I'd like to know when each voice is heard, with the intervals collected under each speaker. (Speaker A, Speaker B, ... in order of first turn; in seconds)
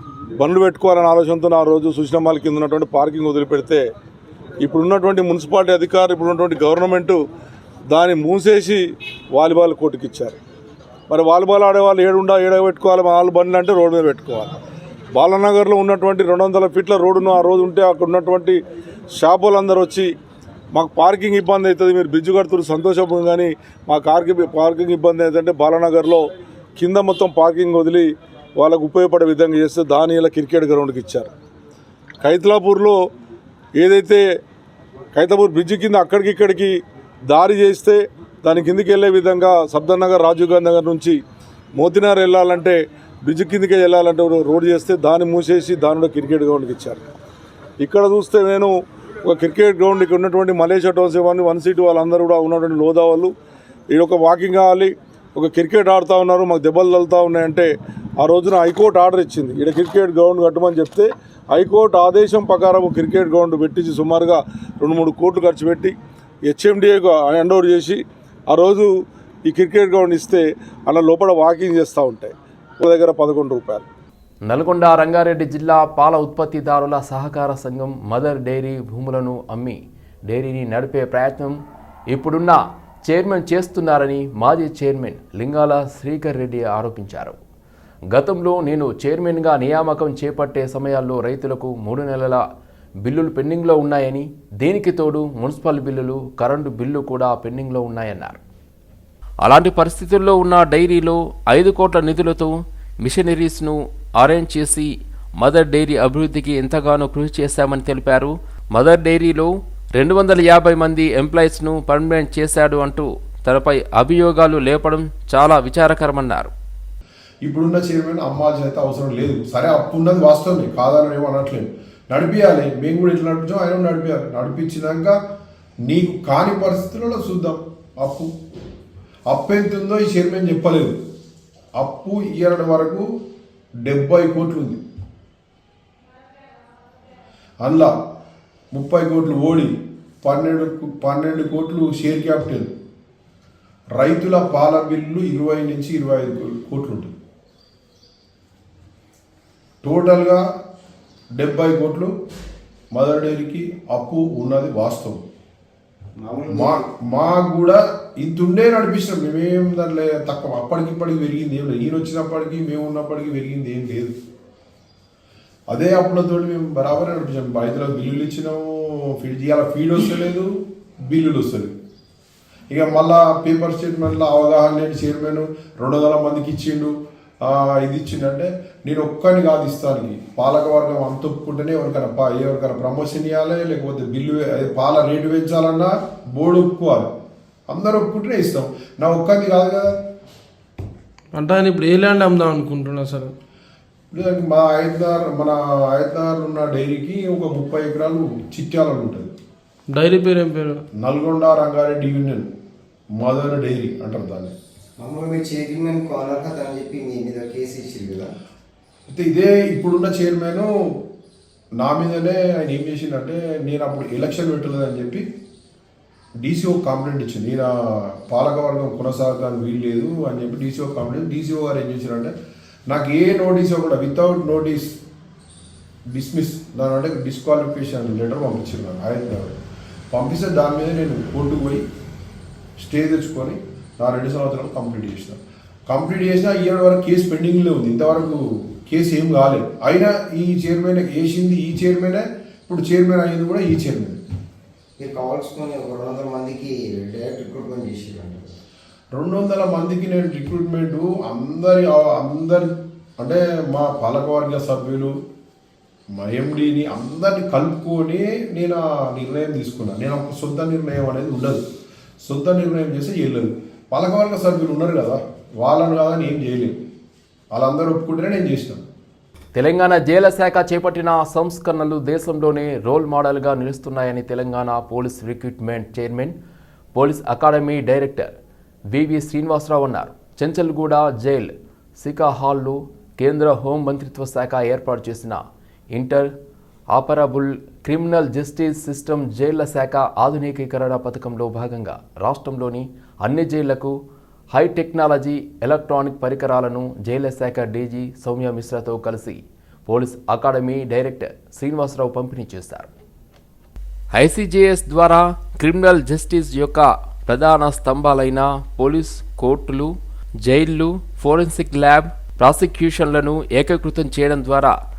Speaker A: 0.4-3.8, 4.6-7.2, 7.9-8.8, 9.3-10.4, 11.1-14.5, 15.1-18.6, 19.1-20.1, 20.7-31.3, 32.2-33.0, 33.8-34.2, 35.1-36.7, 37.3-41.2, 41.8-47.0, 47.8-48.7, 49.2-53.3, 53.9-57.7, 58.2-65.9, 66.5-68.9, 69.5-73.8
Speaker B: 74.5-81.6, 82.1-87.4, 88.1-92.4, 93.0-98.4, 99.4-116.5, 269.5-276.4, 276.9-278.3, 278.9-285.4, 285.9-286.3, 286.9-293.9, 294.5-302.9, 304.1-314.8
Speaker C: 117.4-125.2, 125.8-128.3, 129.3-131.0, 131.8-133.1, 133.8-134.8, 137.6-138.0, 138.7-142.7, 143.9-147.1, 149.8-150.5, 151.3-152.1, 152.9-155.2, 156.5-164.2, 165.7-171.7, 172.7-187.1, 187.7-189.9, 194.1-199.3, 201.0-202.5, 203.2-204.5, 209.1-210.7, 211.8-215.2, 216.4-222.3, 222.9-225.0, 226.1-229.6, 230.1-231.8, 232.8-244.2, 249.1-255.1, 256.1-261.6, 262.2-266.8, 267.5-268.8
Speaker D: 156.2-156.9, 205.0-208.3, 245.0-248.5
Speaker E: 191.3-193.3, 199.9-200.8